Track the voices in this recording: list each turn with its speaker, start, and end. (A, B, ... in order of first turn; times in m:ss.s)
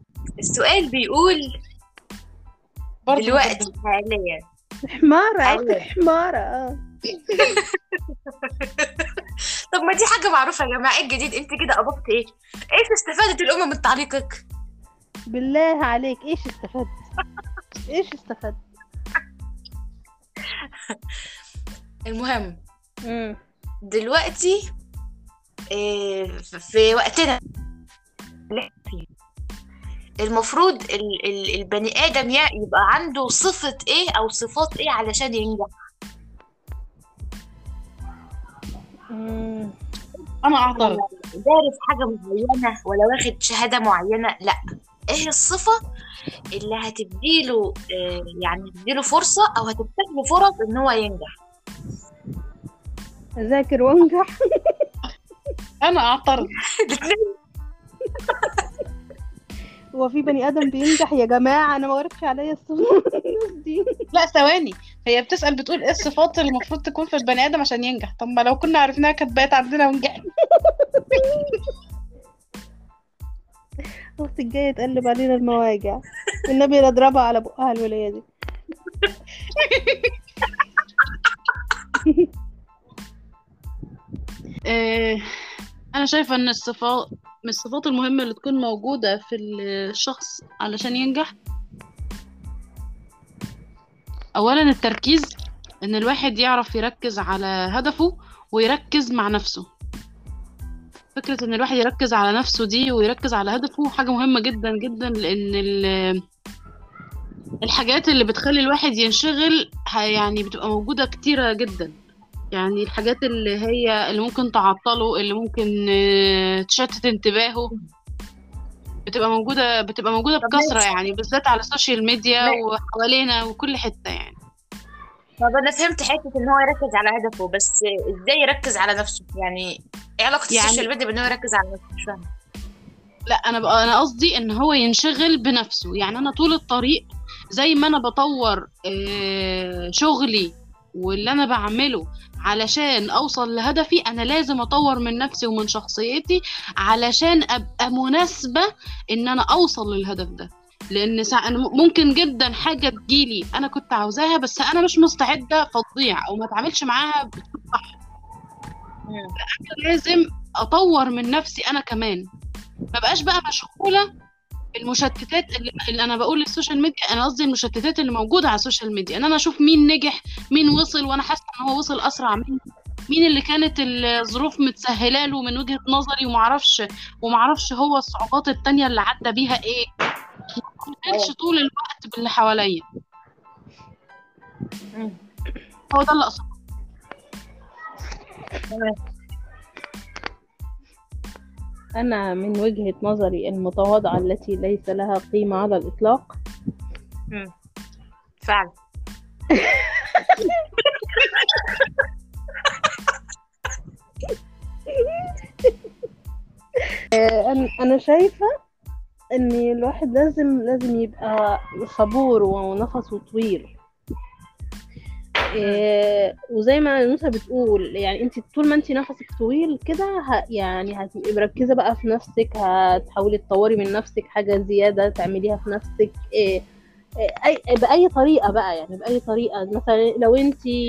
0:00.4-0:01.4 A
0:03.1-0:03.7 B
0:03.2-0:04.4 A
0:04.9-0:06.7 C
0:05.4-0:05.8 A
0:07.4-0:09.1 A
0:09.7-0:14.4 A
0:15.3-0:16.9 C
0:17.9-0:18.6 C
0:22.1-0:22.6 A
0:23.0-0:23.4 C
0:23.9-0:24.6 A
0:25.7-0:27.4 A
0:28.5-0:29.1 A
0:30.2-0:35.7 A
0:39.1-0:39.7 C
0:40.4-0:41.0 B
0:40.7-0:44.6 A
0:45.1-0:45.8 A
0:46.6-0:51.3 A
0:53.4-0:54.3 C
0:55.8-0:56.5 B
0:56.8-0:57.3 A
1:00.0-1:03.8 C
1:04.1-1:10.2 B
1:10.7-1:11.0 C
1:14.2-1:18.2 C
1:19.6-1:20.1 B
1:24.7-1:25.2 B
1:25.9-1:31.3 B
1:34.4-1:35.3 B
1:35.9-1:39.6 B
1:41.2-1:45.9 B
1:47.6-1:51.9 B
1:52.5-1:55.9 B
1:56.7-1:57.7 B
1:59.1-2:04.4 B
2:00.4-2:00.8 A
2:05.4-2:12.3 A
2:10.5-2:10.8 B
2:13.3-2:37.9 B
2:39.1-2:39.3 A
2:39.6-2:42.2 B
2:42.9-2:44.0 B
2:44.8-2:59.9 B
3:00.8-3:02.8 B
3:01.1-3:01.3 A
3:05.9-3:06.5 B
3:08.7-3:09.0 A
3:12.0-3:16.3 C
3:18.4-3:18.7 A
3:19.6-3:20.4 C
3:27.1-3:28.5 C
3:29.4-3:33.7 C
3:35.6-3:46.6 C
3:47.4-3:50.8 C